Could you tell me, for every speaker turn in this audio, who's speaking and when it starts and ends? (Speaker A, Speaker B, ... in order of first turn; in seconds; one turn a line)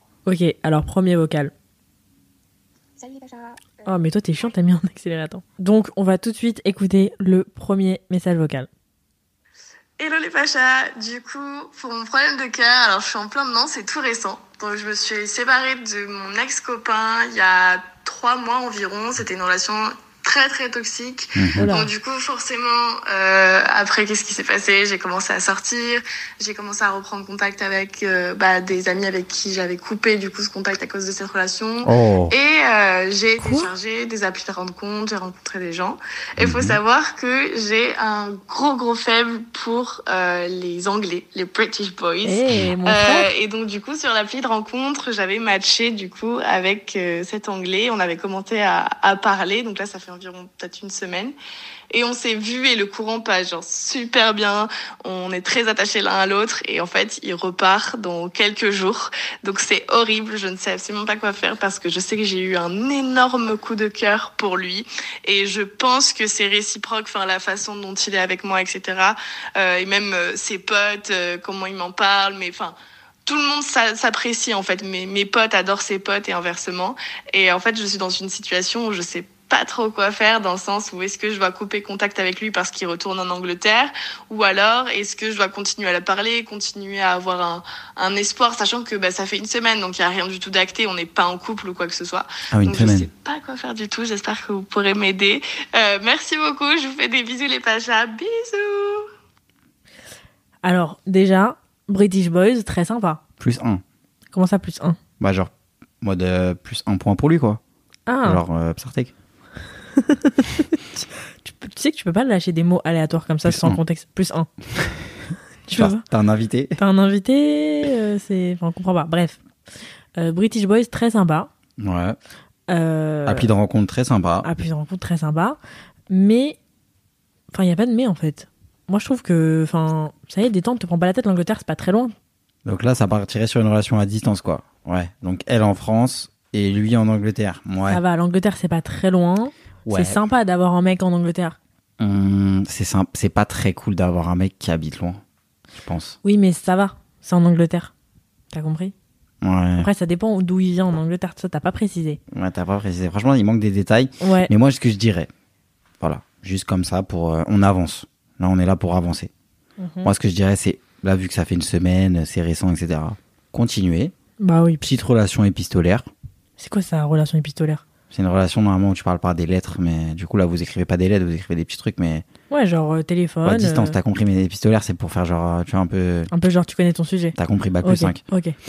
Speaker A: 0.3-1.5
Speaker A: 3.9-8.7
Speaker B: 10.0-51.4
Speaker C: 21.4-21.7
Speaker A: 21.6-21.9
Speaker C: 31.8-32.3
Speaker A: 33.4-33.7
Speaker C: 36.4-36.8
Speaker A: 42.2-43.3
Speaker B: 51.9-72.8
Speaker B: 73.3-99.1
Speaker C: 92.5-93.1
Speaker A: 100.6-103.2
Speaker C: 103.4-103.8
Speaker A: 104.3-105.0
Speaker C: 105.2-107.6
Speaker A: 108.1-108.4
Speaker C: 108.2-109.1
Speaker A: 110.0-114.5
Speaker C: 113.5-113.8
Speaker A: 115.7-116.0
Speaker C: 115.7-116.8
Speaker A: 116.8-119.4
Speaker A: 120.2-121.5
Speaker C: 121.8-122.2
Speaker A: 122.7-123.5
Speaker C: 123.3-124.5
Speaker A: 124.4-125.6
Speaker A: 126.1-126.6
Speaker A: 127.5-132.1
Speaker C: 132.7-138.0
Speaker A: 137.9-141.6
Speaker C: 139.9-140.2
Speaker C: 142.0-145.2
Speaker C: 145.8-146.2
Speaker A: 146.2-147.9
Speaker A: 148.5-148.9
Speaker C: 149.4-149.9
Speaker A: 149.8-152.2
Speaker C: 152.3-155.3
Speaker A: 154.2-154.5
Speaker C: 156.0-159.3
Speaker A: 159.8-160.1
Speaker C: 160.0-164.1
Speaker A: 164.4-164.9
Speaker C: 164.8-166.1
Speaker A: 166.6-167.8
Speaker C: 168.1-172.2
Speaker A: 172.5-174.0
Speaker C: 173.4-176.3
Speaker A: 176.3-178.6
Speaker C: 177.3-178.2